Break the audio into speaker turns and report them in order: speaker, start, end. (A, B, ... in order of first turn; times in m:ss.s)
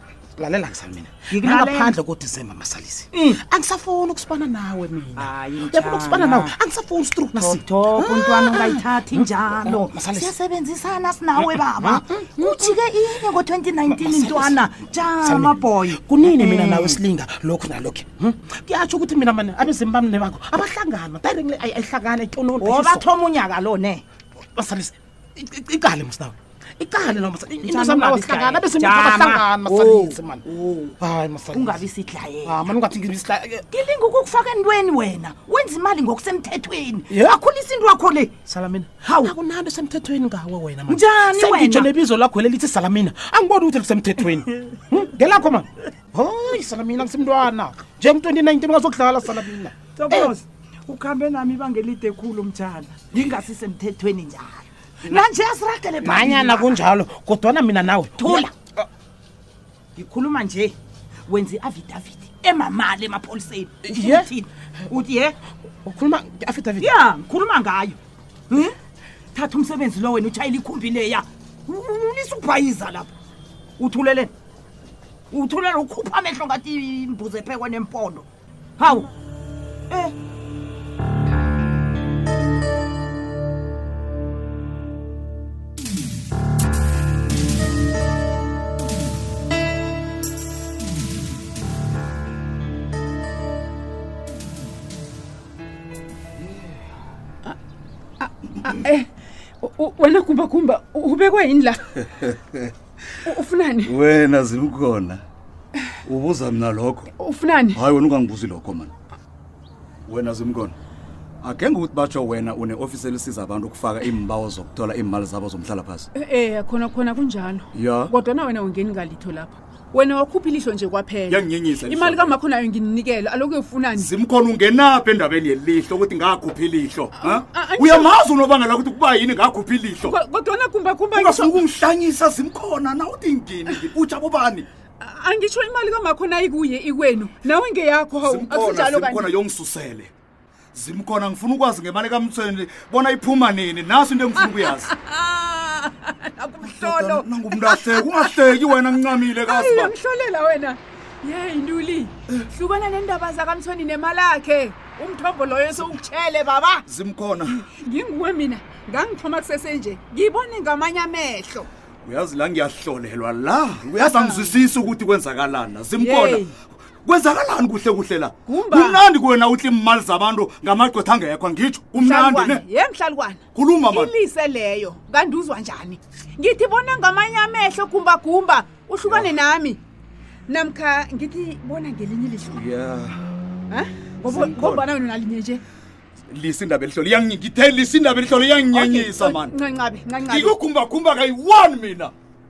0:00.4-0:10.5 A
0:01.4-0:01.8 B
0:05.2-0:06.5 B
0:07.4-0:16.0 B
0:11.3-0:12.9 A
0:13.8-0:23.1 A
0:22.6-0:24.0 B
0:24.5-0:30.5 A
0:27.6-0:29.4 B
0:31.0-0:31.9 A
0:31.6-0:32.7 B
0:32.4-0:33.7 A
0:33.8-0:38.3 B
0:37.1-0:37.6 A
0:38.4-0:50.4 A
0:39.1-0:39.3 B
0:40.9-0:41.9 B
0:50.1-0:50.3 B
0:50.9-0:56.8 B
0:56.0-0:58.5 A
0:58.2-0:58.5 B
1:00.0-1:00.8 B
1:01.3-1:05.3 B
1:03.8-1:04.3 A
1:05.8-1:06.9 A
1:06.9-1:08.0 B
1:09.3-1:13.1 B
1:13.8-1:14.3 B
1:15.3-1:18.3 B
1:18.8-1:19.1 B
1:38.2-1:39.1 C
1:39.6-1:41.8 C
1:43.3-1:44.0 C
1:43.8-1:45.2 D
1:46.0-1:47.1 D
1:47.2-1:47.8 C
1:47.7-1:48.9 D
1:50.1-1:50.8 D
1:51.4-1:56.1 D
1:56.2-2:04.1 C
1:57.7-1:58.1 D
2:01.3-2:02.4 D
2:03.9-2:10.2 D
2:07.1-2:08.1 C
2:10.0-2:11.6 C
2:11.1-2:14.7 D
2:15.0-2:19.4 C
2:18.2-2:20.1 D
2:20.8-2:24.9 D
2:24.4-2:28.8 C
2:26.6-2:29.9 D
2:29.3-2:36.8 C
2:36.9-2:37.6 D
2:37.6-2:41.7 C
2:42.0-2:46.4 D
2:44.0-2:44.6 C
2:46.0-2:46.5 C
2:47.0-2:52.6 D
2:48.5-2:49.0 C
2:52.0-2:59.8 C
2:53.6-2:54.1 D
3:00.5-3:02.6 C
3:02.5-3:03.1 D
3:03.7-3:05.6 C
3:04.2-3:04.9 D
3:06.3-3:09.6 D
3:08.7-3:10.6 C
3:10.3-3:12.1 D